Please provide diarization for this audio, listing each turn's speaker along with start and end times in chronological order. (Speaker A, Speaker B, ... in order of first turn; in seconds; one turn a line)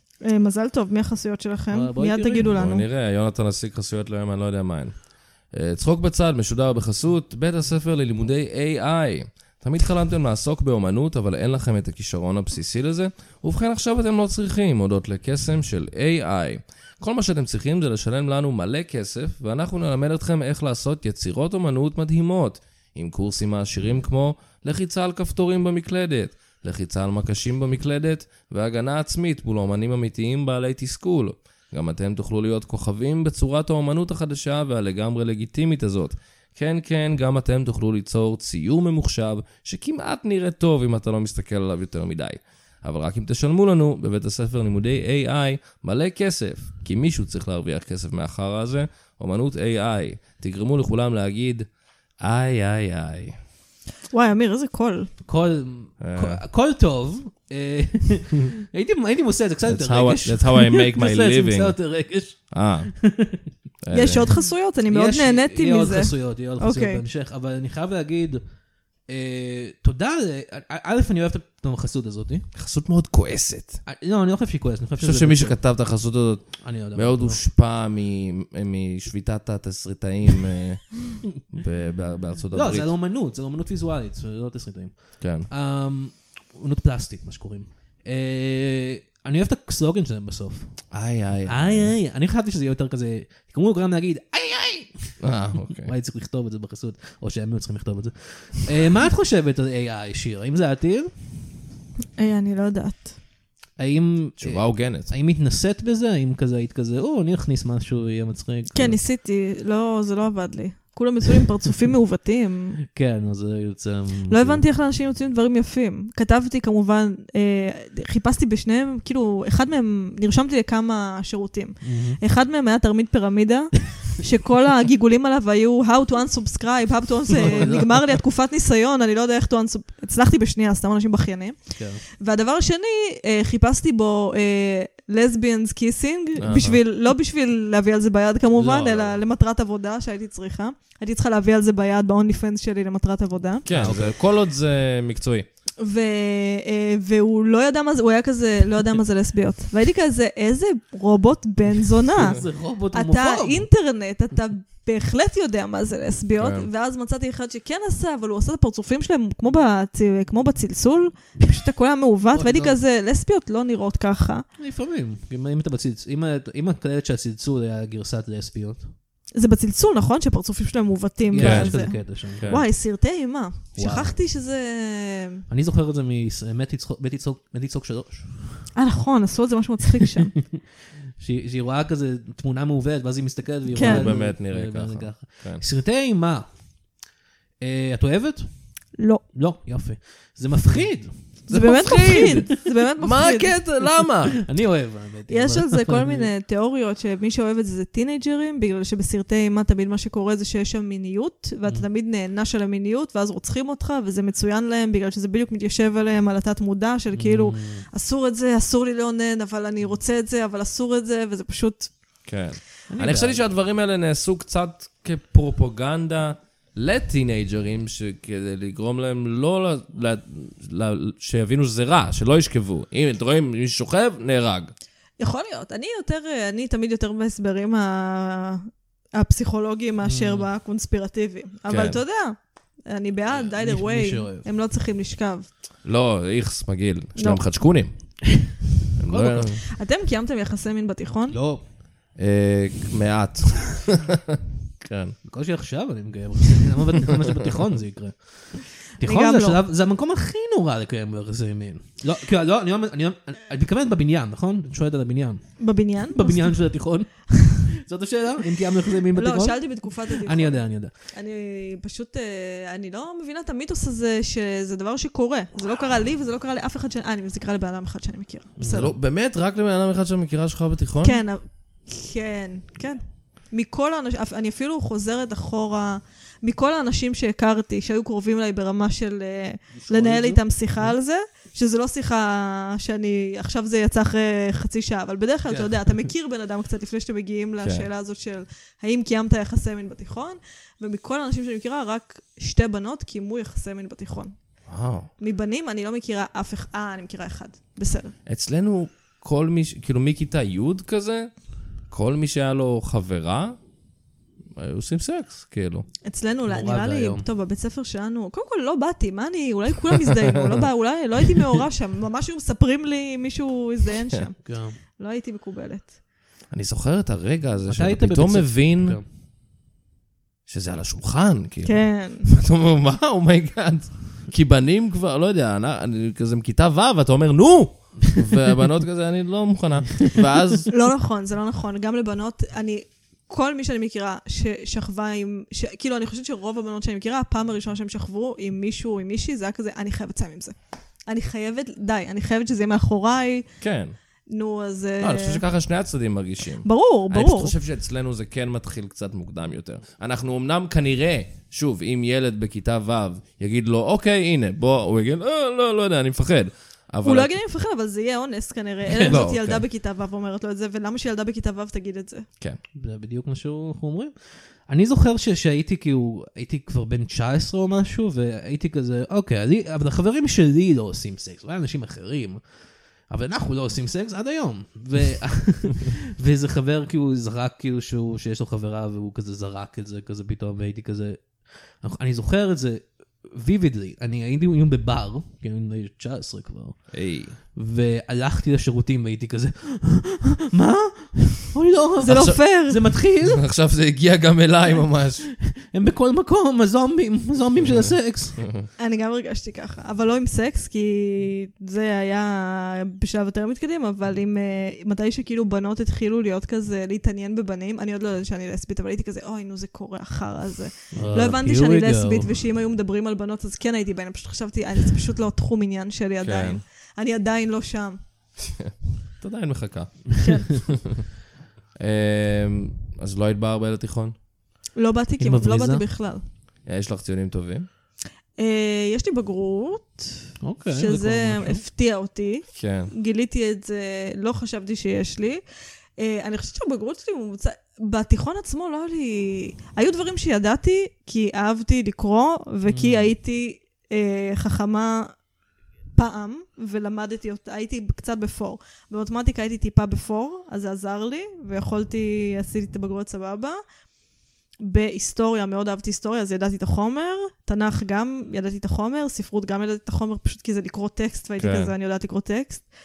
Speaker A: 0.2-2.8
Speaker B: 1.7-2.5
Speaker C: 2.5-51.7
Speaker C: 52.2-53.4
Speaker A: 54.1-55.1
Speaker B: 55.2-63.5
Speaker C: 56.0-56.4
Speaker C: 59.7-61.8
Speaker C: 62.5-62.9
Speaker C: 63.8-64.3
Speaker A: 63.9-67.0
Speaker B: 64.9-68.4
Speaker B: 69.1-72.5
Speaker C: 72.5-73.8
Speaker B: 73.8-75.6
Speaker C: 75.0-82.9
Speaker B: 76.6-77.4
Speaker B: 82.5-90.8
Speaker C: 85.2-85.5
Speaker C: 90.9-91.9
Speaker B: 91.5-101.1
Speaker C: 95.2-95.9
Speaker A: 102.2-103.1
Speaker B: 103.8-109.0
Speaker C: 104.4-105.1
Speaker A: 108.7-112.8
Speaker B: 112.9-114.6
Speaker A: 114.3-143.7
Speaker B: 121.8-122.2
Speaker B: 127.3-128.2
Speaker B: 131.8-132.0
Speaker C: 136.4-136.8
Speaker B: 138.5-139.2
Speaker C: 143.7-145.4
Speaker B: 143.7-144.2
Speaker A: 145.8-164.4
Speaker B: 152.1-153.7
Speaker C: 156.4-156.7
Speaker B: 162.3-162.8
Speaker B: 164.6-168.9
Speaker A: 169.3-175.4
Speaker B: 171.3-172.6
Speaker C: 171.4-172.6
Speaker B: 173.8-174.2
Speaker B: 175.5-178.7
Speaker A: 178.7-180.3
Speaker B: 181.2-186.5
Speaker A: 183.7-184.1
Speaker C: 183.8-185.6
Speaker B: 187.6-192.6
Speaker A: 189.0-189.2
Speaker A: 191.5-193.6
Speaker C: 193.0-194.4
Speaker B: 194.3-196.3
Speaker A: 195.3-211.9
Speaker B: 207.1-207.9
Speaker C: 212.2-224.7
Speaker B: 212.9-213.4
Speaker A: 225.2-235.5
Speaker B: 230.0-230.5
Speaker C: 231.7-232.0
Speaker B: 233.3-234.4
Speaker C: 235.8-237.9
Speaker A: 237.2-237.4
Speaker C: 239.0-239.6
Speaker B: 239.1-239.5
Speaker A: 239.7-241.4
Speaker B: 241.3-241.6
Speaker C: 242.2-245.1
Speaker B: 245.2-260.9
Speaker A: 249.0-249.6
Speaker A: 255.6-256.7
Speaker A: 259.1-268.9
Speaker B: 268.6-268.9
Speaker C: 268.7-271.2
Speaker A: 271.0-294.4
Speaker B: 279.7-280.9
Speaker B: 285.5-285.9
Speaker C: 287.6-287.9
Speaker C: 294.7-295.1
Speaker A: 295.2-298.1
Speaker C: 298.2-301.3
Speaker C: 301.9-303.6
Speaker C: 304.5-305.9
Speaker A: 306.0-315.9
Speaker B: 306.5-307.2
Speaker B: 314.4-314.8
Speaker C: 316.5-319.0
Speaker B: 317.7-319.0
Speaker C: 320.5-330.7
Speaker A: 321.6-322.3
Speaker A: 330.7-340.5
Speaker A: 341.1-343.4
Speaker C: 343.6-343.9
Speaker A: 344.3-345.4
Speaker C: 345.0-357.4
Speaker A: 346.6-347.5
Speaker A: 357.0-362.2
Speaker B: 358.9-359.2
Speaker C: 359.1-359.6
Speaker B: 362.8-372.4
Speaker B: 373.1-386.9
Speaker C: 386.9-387.4
Speaker B: 387.5-393.4
Speaker A: 392.0-392.9
Speaker C: 392.0-392.4
Speaker C: 393.2-395.3
Speaker B: 395.4-398.4
Speaker C: 397.6-397.9
Speaker A: 398.8-418.0
Speaker B: 410.9-412.3
Speaker C: 416.2-416.6
Speaker C: 418.4-421.0
Speaker A: 420.2-420.6
Speaker C: 421.8-424.1
Speaker A: 424.8-426.2
Speaker B: 425.2-425.8
Speaker C: 426.6-427.6
Speaker A: 428.4-435.4
Speaker B: 430.4-431.6
Speaker C: 432.5-432.9
Speaker A: 436.0-445.1
Speaker B: 442.7-443.1
Speaker A: 445.9-453.6
Speaker A: 454.6-462.7
Speaker C: 461.4-461.7